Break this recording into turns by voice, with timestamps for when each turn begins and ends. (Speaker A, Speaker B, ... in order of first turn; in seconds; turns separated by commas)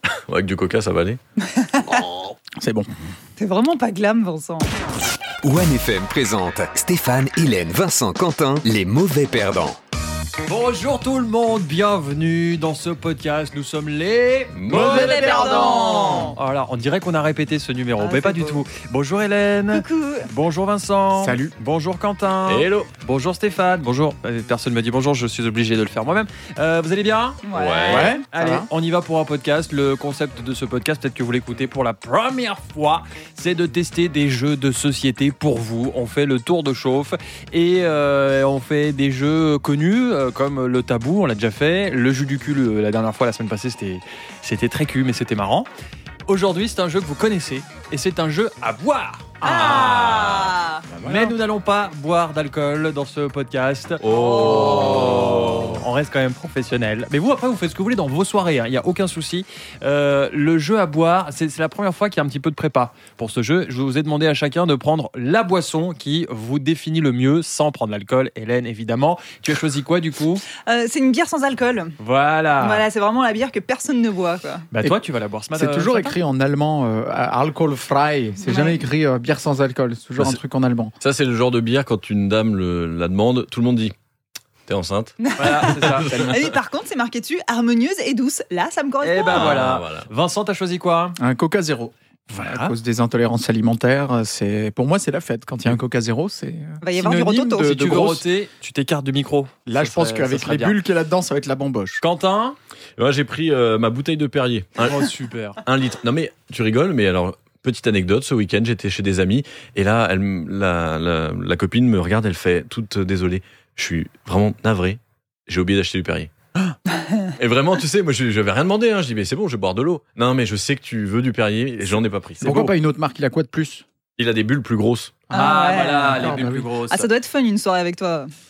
Speaker A: 0.3-1.2, Speaker B: 1.4-2.0, Speaker C: 1.9-2.2, Speaker D: 2.6-2.9, Speaker B: 3.4-4.7, Speaker C: 5.4-9.8, Speaker E: 10.5-45.7, Speaker A: 14.5-16.3, Speaker B: 14.7-16.4, Speaker B: 18.0-18.6, Speaker B: 19.7-20.3, Speaker D: 21.1-21.6, Speaker A: 22.5-22.9, Speaker B: 27.4-28.1, Speaker A: 27.6-28.1, Speaker D: 27.9-28.7, Speaker E: 46.3-50.2, Speaker B: 49.4-50.9, Speaker A: 49.7-50.5, Speaker D: 50.9-51.4, Speaker E: 51.0-70.4, Speaker A: 54.0-55.8, Speaker B: 54.1-54.9, Speaker B: 70.6-72.0, Speaker E: 72.0-72.8, Speaker B: 72.6-74.7, Speaker E: 74.7-76.2, Speaker D: 75.5-80.9, Speaker B: 78.5-78.8, Speaker A: 81.0-84.0, Speaker A: 84.7-86.5, Speaker B: 85.2-89.6, Speaker E: 85.4-86.2, Speaker D: 86.1-86.4, Speaker E: 89.0-91.2, Speaker A: 89.2-90.1, Speaker D: 91.2-98.2, Speaker E: 92.3-92.7, Speaker B: 96.8-97.8, Speaker E: 97.6-100.8, Speaker D: 99.7-102.0, Speaker E: 102.0-102.6, Speaker A: 103.0-105.1, Speaker E: 104.8-105.6, Speaker A: 105.6-116.3, Speaker B: 116.9-117.3, Speaker A: 117.4-122.6, Speaker D: 122.4-123.8, Speaker E: 122.4-122.7, Speaker A: 124.2-125.3, Speaker B: 125.3-126.3, Speaker E: 125.3-127.1, Speaker D: 125.7-126.7, Speaker B: 126.9-128.3